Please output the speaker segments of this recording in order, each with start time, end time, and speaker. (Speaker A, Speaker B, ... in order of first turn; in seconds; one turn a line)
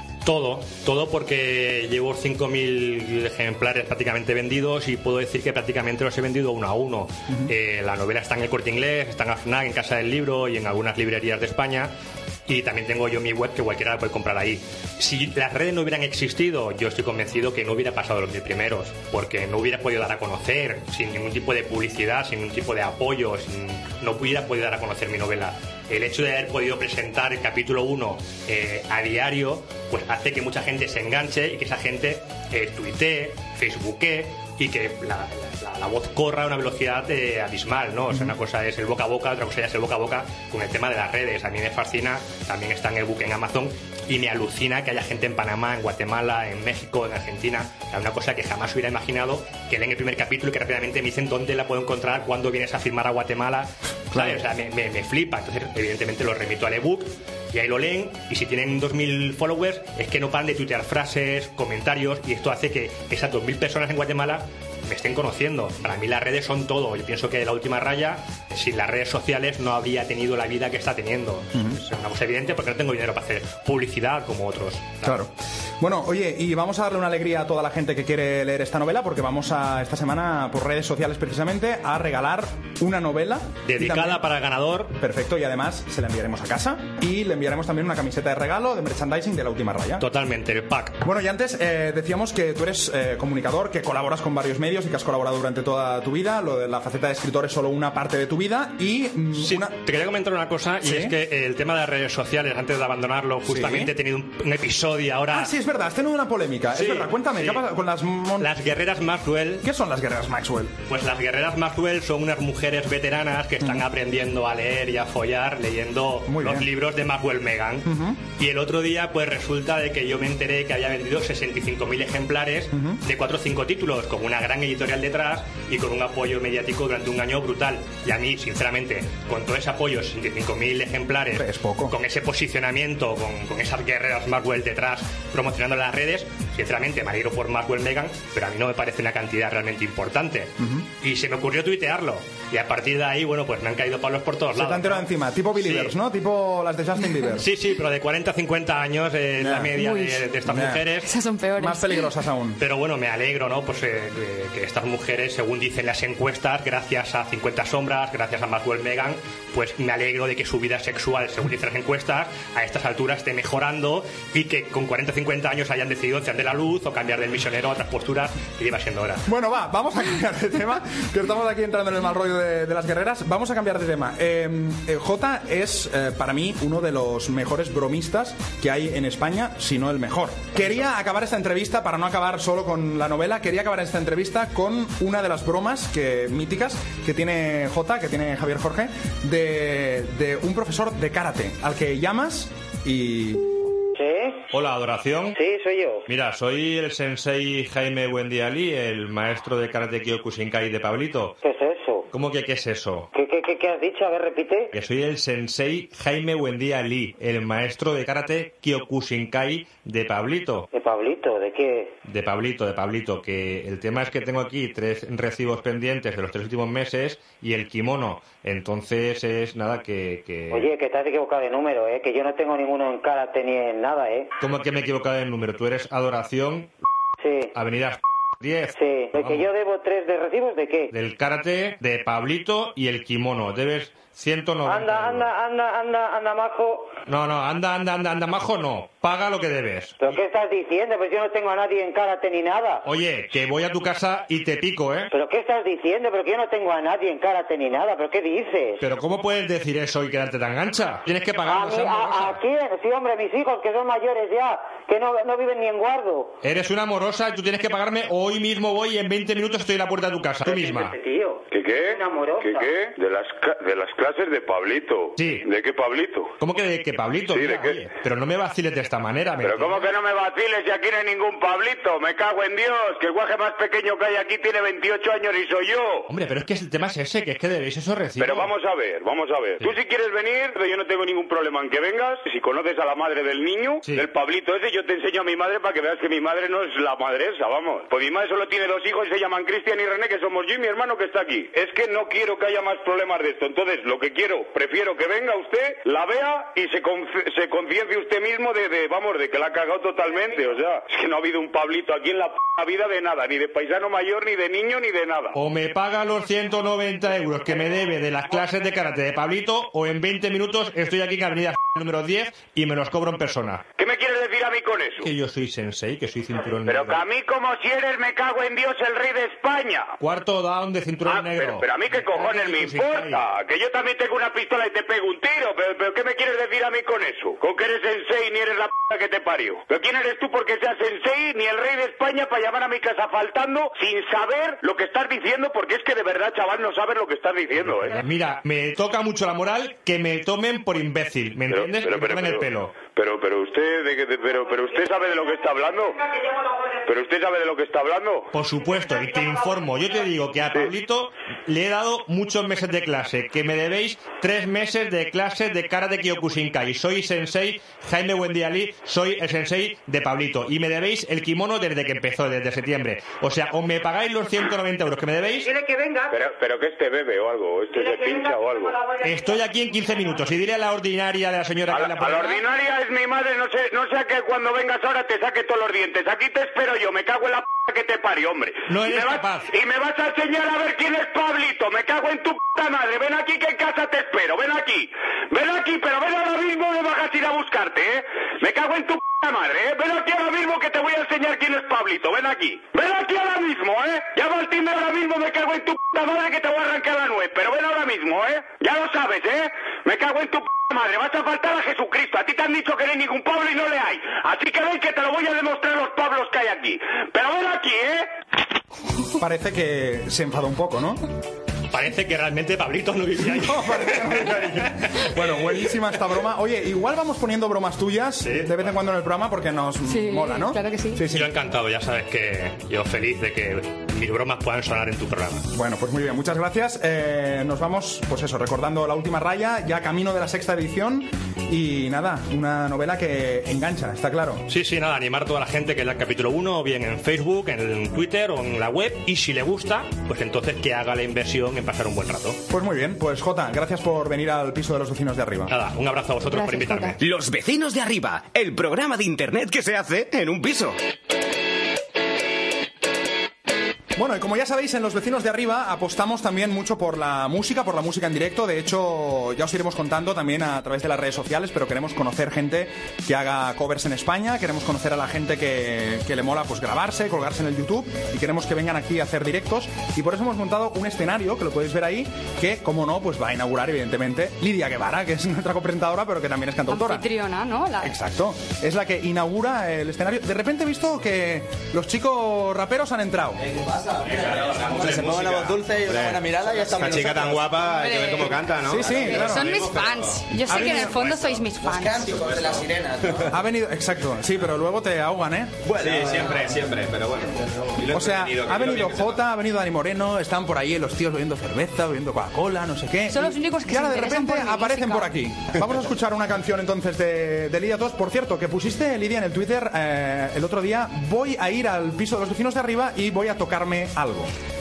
Speaker A: 0.2-11.9
Speaker A: 12.5-75.2
Speaker B: 38.1-38.4
Speaker B: 54.1-54.4
Speaker B: 71.5-71.8
Speaker B: 75.0-84.2
Speaker A: 83.7-84.9
Speaker B: 85.0-90.0
Speaker A: 90.0-91.0
Speaker B: 91.0-99.7
Speaker A: 99.4-105.5
Speaker B: 100.8-101.2
Speaker B: 103.5-103.9
Speaker B: 105.3-108.5
Speaker A: 106.8-107.6
Speaker A: 108.4-109.7
Speaker B: 109.6-110.7
Speaker A: 110.9-145.9
Speaker B: 116.3-116.7
Speaker B: 117.9-118.2
Speaker B: 122.7-123.0
Speaker B: 131.3-131.9
Speaker B: 140.6-140.9
Speaker B: 144.5-147.5
Speaker A: 147.3-151.1
Speaker B: 149.4-149.7
Speaker C: 149.7-150.3
Speaker B: 150.4-150.9
Speaker C: 151.0-152.1
Speaker B: 151.6-152.6
Speaker A: 152.6-169.2
Speaker B: 169.3-193.4
Speaker D: 194.0-194.4
Speaker E: 194.5-195.4
Speaker D: 195.3-196.1
Speaker E: 196.1-201.4
Speaker D: 201.4-202.1
Speaker E: 202.1-203.1
Speaker D: 203.1-204.7
Speaker E: 204.7-210.7
Speaker D: 210.7-212.0
Speaker E: 212.1-220.7
Speaker D: 220.5-224.3
Speaker E: 224.4-226.7
Speaker D: 227.2-227.5
Speaker E: 227.5-229.5
Speaker D: 228.8-230.9
Speaker E: 230.9-235.3
Speaker D: 234.7-237.0
Speaker E: 237.1-240.1
Speaker D: 240.0-242.8
Speaker E: 242.8-245.1
Speaker D: 245.1-248.8
Speaker E: 248.8-252.4
Speaker D: 251.5-256.4
Speaker E: 256.4-260.9
Speaker D: 260.5-262.7
Speaker F: 261.5-266.3
Speaker E: 265.2-265.4
Speaker E: 266.4-269.9
Speaker F: 267.3-267.8
Speaker F: 269.4-276.1
Speaker E: 276.1-278.5
Speaker F: 278.2-305.3
Speaker E: 283.8-284.1
Speaker E: 305.3-313.6
Speaker F: 313.8-315.1
Speaker E: 315.0-317.1
Speaker F: 316.7-319.9
Speaker E: 320.0-323.2
Speaker F: 321.1-338.0
Speaker E: 337.9-342.9
Speaker F: 341.5-346.0
Speaker F: 346.8-348.3
Speaker E: 348.3-365.5
Speaker D: 365.4-366.2
Speaker F: 366.1-368.8
Speaker D: 367.8-369.0
Speaker E: 369.0-372.4
Speaker F: 371.7-408.1
Speaker E: 378.7-379.5
Speaker B: 409.2-411.0
Speaker A: 411.7-414.7
Speaker B: 413.2-421.3
Speaker A: 418.2-418.5
Speaker C: 419.9-421.0
Speaker A: 421.1-425.5
Speaker B: 425.5-434.5
Speaker A: 434.5-442.4
Speaker B: 442.5-445.5
Speaker A: 445.5-447.0
Speaker C: 446.3-447.0
Speaker G: 447.0-450.8
Speaker B: 454.0-477.1
Speaker C: 476.7-477.9
Speaker B: 477.8-483.4
Speaker H: 484.1-487.6
Speaker I: 486.8-488.8
Speaker C: 487.7-492.1
Speaker B: 488.6-489.6
Speaker B: 490.5-491.1
Speaker H: 491.8-493.1
Speaker B: 493.3-495.6
Speaker H: 495.6-496.5
Speaker I: 495.8-497.3
Speaker B: 497.9-514.3
Speaker I: 498.0-498.9
Speaker C: 503.1-505.1